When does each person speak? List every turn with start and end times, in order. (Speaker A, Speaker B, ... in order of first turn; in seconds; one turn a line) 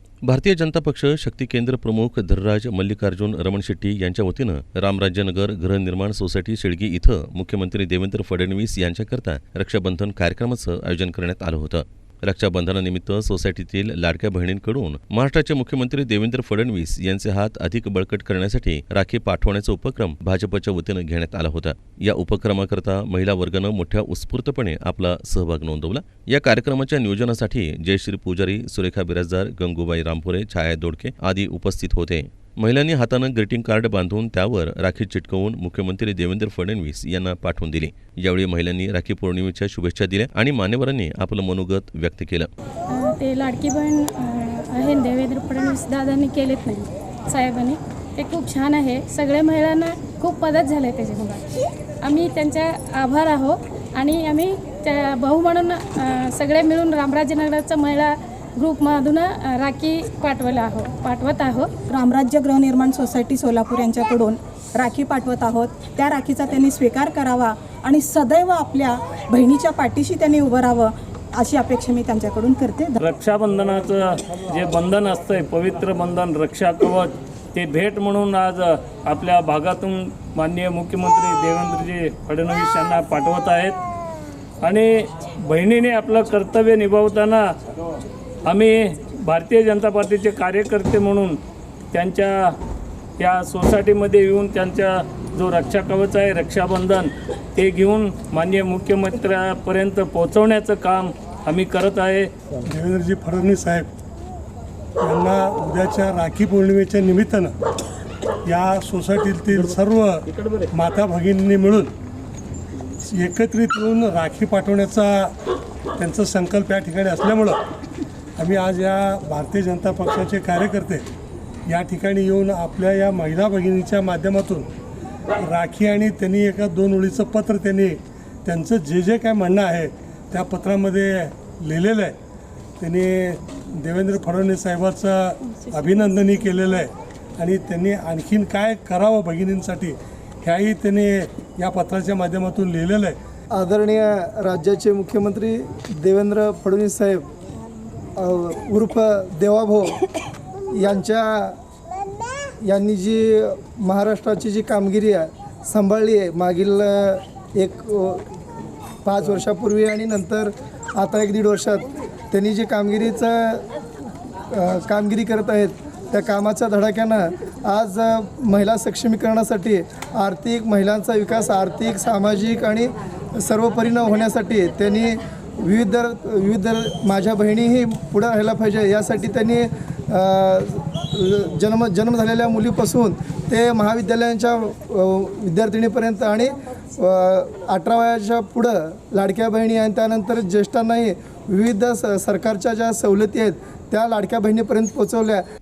Speaker A: 0.3-42.5
Speaker B: 42.9-61.7
Speaker C: 61.9-73.0
Speaker D: 73.0-83.8
Speaker D: 84.6-87.5
Speaker D: 88.5-91.4
Speaker D: 91.9-92.6
Speaker D: 93.2-102.3
Speaker E: 102.7-103.9
Speaker E: 105.0-107.5
Speaker E: 108.5-111.9
Speaker D: 110.4-110.7
Speaker E: 113.1-115.3
Speaker E: 116.0-117.6
Speaker E: 118.4-121.0
Speaker E: 121.7-124.7
Speaker E: 125.4-132.1
Speaker E: 132.8-143.2
Speaker F: 143.6-147.2
Speaker F: 148.2-150.0
Speaker F: 150.8-151.6
Speaker F: 152.6-158.2
Speaker F: 159.1-163.6
Speaker F: 164.5-195.4